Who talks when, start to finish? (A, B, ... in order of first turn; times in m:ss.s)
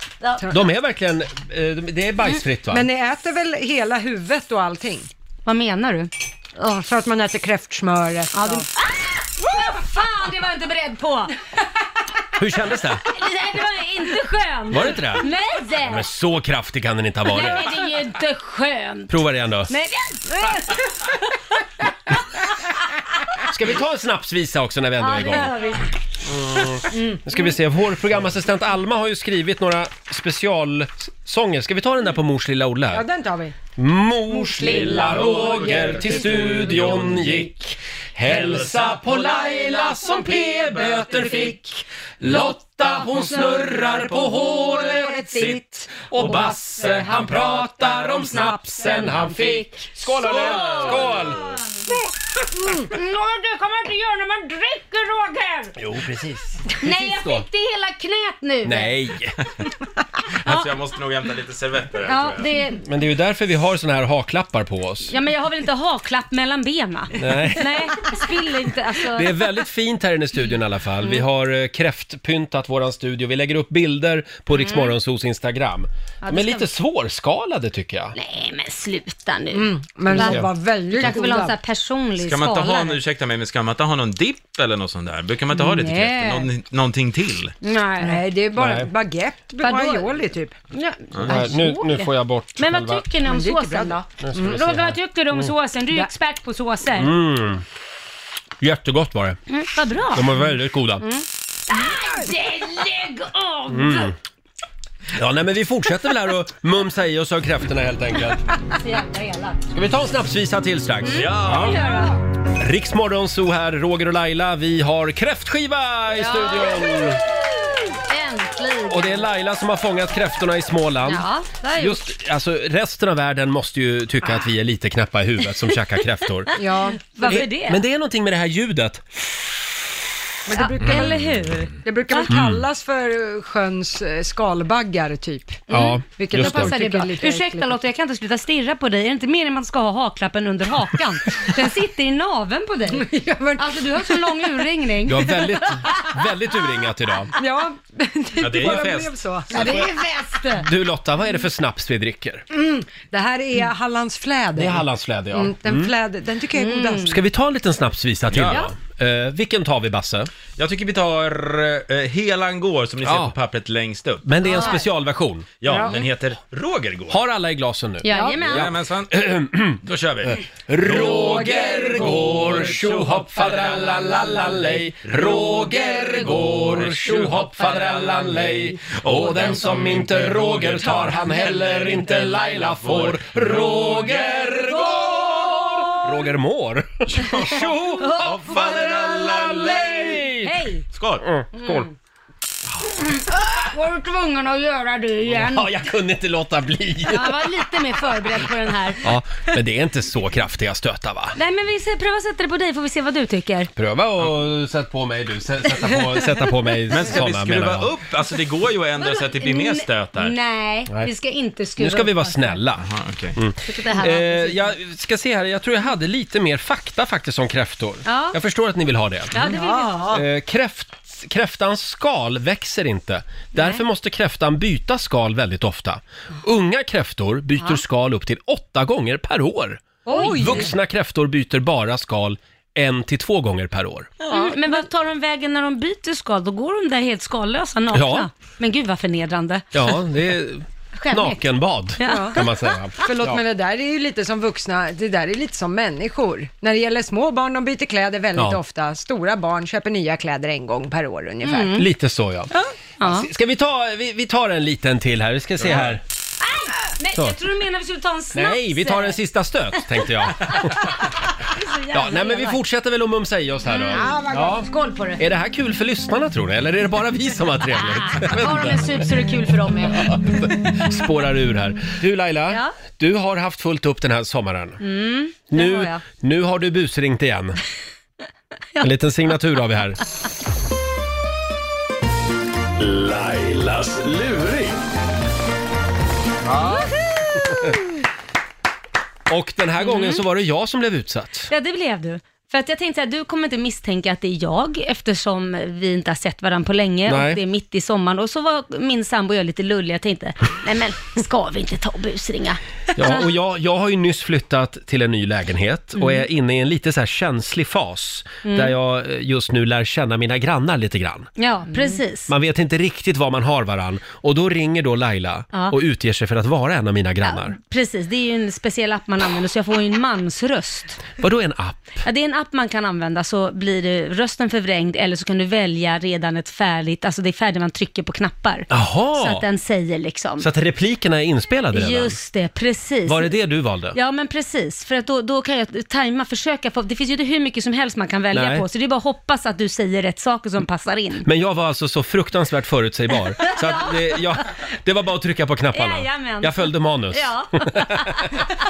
0:00.5-0:02.9 A
0:02.7-0:05.1 B
0:05.5-0:06.1 C
0:06.6-0:08.7 B
0:08.3-0:11.3 C
0:12.4-0:13.0 A
0:13.1-0:16.1 C
0:14.7-0:15.3 A
0:15.8-0:17.8 A
0:17.3-0:19.1 C
0:19.1-0:19.7 A
0:19.7-0:21.1 C
0:23.5-0:25.6 A
0:25.0-0:25.9 C
0:26.2-0:33.1 A
0:26.9-0:27.2 C
0:32.9-0:33.6 B
0:33.8-0:51.4 A
0:34.6-0:35.4 C
0:35.8-0:36.9 D
0:45.2-0:45.6 C
0:48.3-0:51.2 C
0:50.5-0:50.8 D
0:52.6-0:52.9 B
0:52.7-0:55.8 C
0:55.8-0:57.4 A
0:56.8-0:59.0 C
0:58.6-0:59.4 A
1:00.4-1:02.5 D
1:02.0-1:02.8 C
1:02.8-1:05.1 A
1:05.1-1:09.4 C
1:07.2-1:07.9 A
1:09.0-1:18.2 A
1:14.5-1:15.0 C
1:16.2-1:16.7 C
1:18.2-1:23.0 C
1:19.5-1:21.6 B
1:20.2-1:20.5 A
1:22.2-1:27.5 D
1:25.6-1:26.4 C
1:27.6-1:28.2 C
1:28.0-1:30.6 B
1:28.6-1:28.9 A
1:29.6-1:30.1 C
1:30.7-1:37.1 C
1:31.3-1:33.1 A
1:33.2-1:34.6 B
1:34.2-1:35.5 A
1:37.0-1:37.6 A
1:38.6-1:39.4 A
1:39.5-1:40.4 C
1:40.1-1:41.0 A
1:41.0-1:44.1 C
1:43.7-1:44.2 A
1:45.2-1:48.4 A
1:48.8-1:49.6 C
1:49.7-1:51.8 A
1:51.0-1:52.2 C
1:51.1-1:51.8 D
1:52.6-1:57.2 A
1:56.1-1:59.3 C
1:58.9-2:06.6 A
2:01.0-2:02.0 C
2:06.6-2:07.4 B
2:07.0-2:07.8 C
2:07.2-2:09.0 A
2:10.5-2:11.2 B
2:10.5-2:12.3 C
2:10.9-2:11.1 D
2:11.8-2:17.7 B
2:12.3-2:12.7 A
2:15.7-2:25.7 C
2:15.7-2:16.8 A
2:22.9-2:24.6 B
2:25.1-2:27.3 A
2:27.4-2:30.2 B
2:28.4-2:29.2 D
2:29.5-2:30.6 C
2:29.6-2:29.8 A
2:30.6-2:32.4 A
2:32.5-2:37.2 B
2:34.6-2:35.9 A
2:36.6-2:37.1 C
2:37.0-2:40.3 A
2:38.3-2:38.7 D
2:40.6-2:44.5 D
2:43.0-2:43.4 A
2:44.2-2:45.7 A
2:44.5-2:44.8 C
2:45.6-2:47.2 D
2:45.7-2:46.0 B
2:47.1-3:10.5 A
2:48.0-2:48.7 C
2:48.1-2:48.4 B
2:48.4-2:49.2 D
2:49.8-2:53.0 D
3:03.0-3:04.0 D
3:04.7-3:06.0 C
3:07.1-3:10.1 D
3:08.0-3:10.8 C
3:10.9-3:11.2 D
3:11.2-3:11.9 A
3:11.5-3:11.9 C
3:13.0-3:15.7 C
3:15.2-3:17.5 A
3:17.1-3:19.0 C
3:19.0-3:21.4 A
3:21.4-3:23.7 C
3:23.8-3:27.9 A
3:26.9-3:30.4 D
3:29.0-3:32.6 C
3:31.8-3:39.5 A
3:32.8-3:33.4 D
3:33.6-3:34.7 C
3:38.0-3:38.4 C
3:39.3-3:40.2 C
3:39.4-3:40.2 B
3:40.1-3:54.1 A
3:43.6-3:43.8 C
3:50.1-3:50.7 B
3:50.1-3:50.7 C
3:54.3-3:59.8 C
3:57.9-3:58.3 A
3:59.7-4:03.4 A
4:01.0-4:01.4 C
4:02.0-4:02.7 C
4:02.0-4:11.8 B
4:11.4-4:11.9 C
4:11.7-4:16.0 A
4:12.5-4:13.3 C
4:15.6-4:15.9 D
4:16.4-4:19.2 C
4:18.3-4:21.0 A
4:21.4-4:22.6 C
4:21.9-4:29.1 A
4:23.7-4:25.2 C
4:27.8-4:30.2 C
4:30.1-4:34.8 A
4:34.8-4:36.0 C
4:35.5-4:37.6 A
4:38.8-4:40.0 A
4:42.8-4:44.8 E
4:49.3-4:51.5 A
4:49.8-4:50.2 C
4:51.5-5:03.2 C
4:57.1-4:57.4 A
5:03.0-5:11.3 A
5:06.0-5:06.2 C
5:08.4-5:08.7 C
5:11.4-5:12.3 C
5:12.3-5:17.6 A
5:17.2-5:21.0 C
5:21.2-5:22.0 A
5:22.0-5:30.5 C
5:28.7-5:29.4 A
5:30.4-5:32.2 A
5:31.7-5:33.3 C
5:33.1-5:34.0 A
5:33.9-5:41.3 C
5:38.3-5:38.6 A
5:41.2-5:48.4 A
5:43.4-5:44.2 C
5:45.7-5:48.5 C